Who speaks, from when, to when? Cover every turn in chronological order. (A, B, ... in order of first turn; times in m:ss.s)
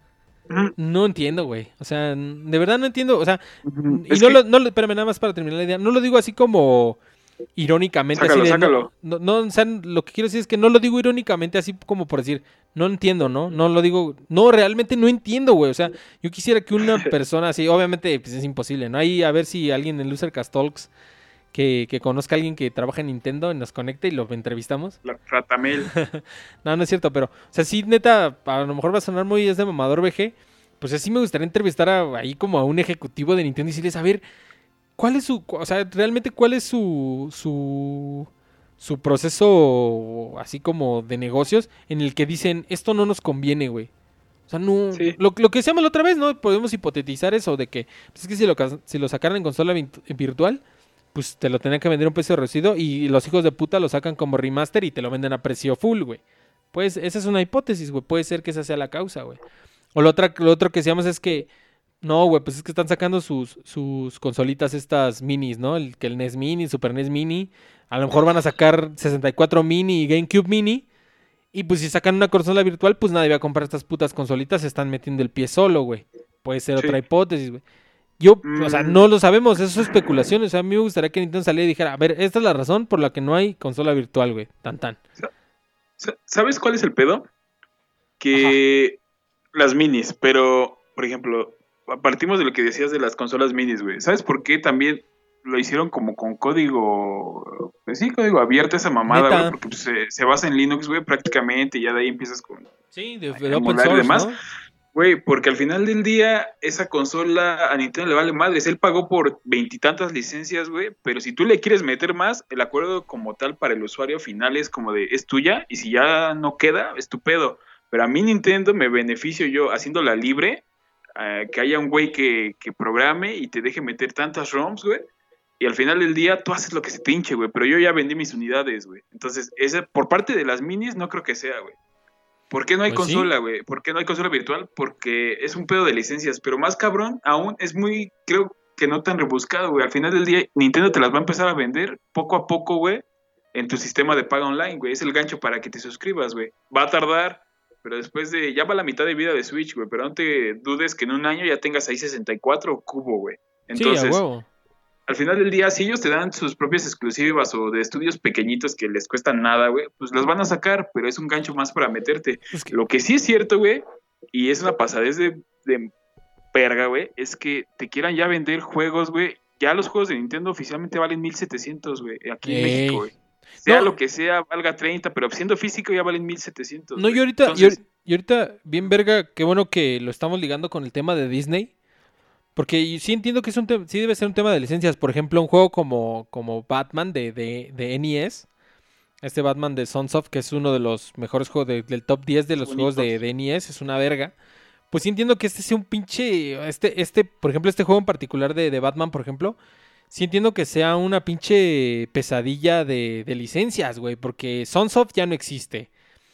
0:00.5-0:00.7 A
0:00.8-0:07.0 B
0:03.6-0:04.4 A
0:07.6-0:20.9 B
0:08.2-0:08.9 A
0:21.5-0:25.0 B
0:25.0-0:25.9 A
0:25.9-0:34.2 B
0:35.0-0:38.3 B
0:38.8-0:43.9 B
0:44.5-0:50.6 B
0:51.1-0:56.2 B
0:56.7-0:59.4 B
0:59.9-1:01.5 B
1:02.0-1:10.8 B
1:11.5-1:17.6 B
1:18.2-1:25.0 B
1:18.4-1:19.0 A
1:26.0-1:27.3 A
1:28.2-1:29.0 A
1:28.3-1:28.6 B
1:29.5-1:42.7 A
1:39.1-1:39.6 B
1:42.9-1:44.4 B
1:43.4-1:44.3 A
1:44.9-2:00.6 A
2:01.2-2:05.1 A
2:05.6-2:11.8 A
2:12.5-2:34.2 A
2:12.9-2:13.3 B
2:33.7-2:34.5 B
2:35.1-2:45.9 A
2:46.5-2:57.8 A
2:52.4-2:53.1 B
2:53.6-2:53.9 B
2:57.0-3:01.7 B
3:02.6-3:08.5 B
3:09.2-3:14.3 B
3:12.6-3:13.2 A
3:14.9-3:19.6 B
3:20.1-3:25.9 B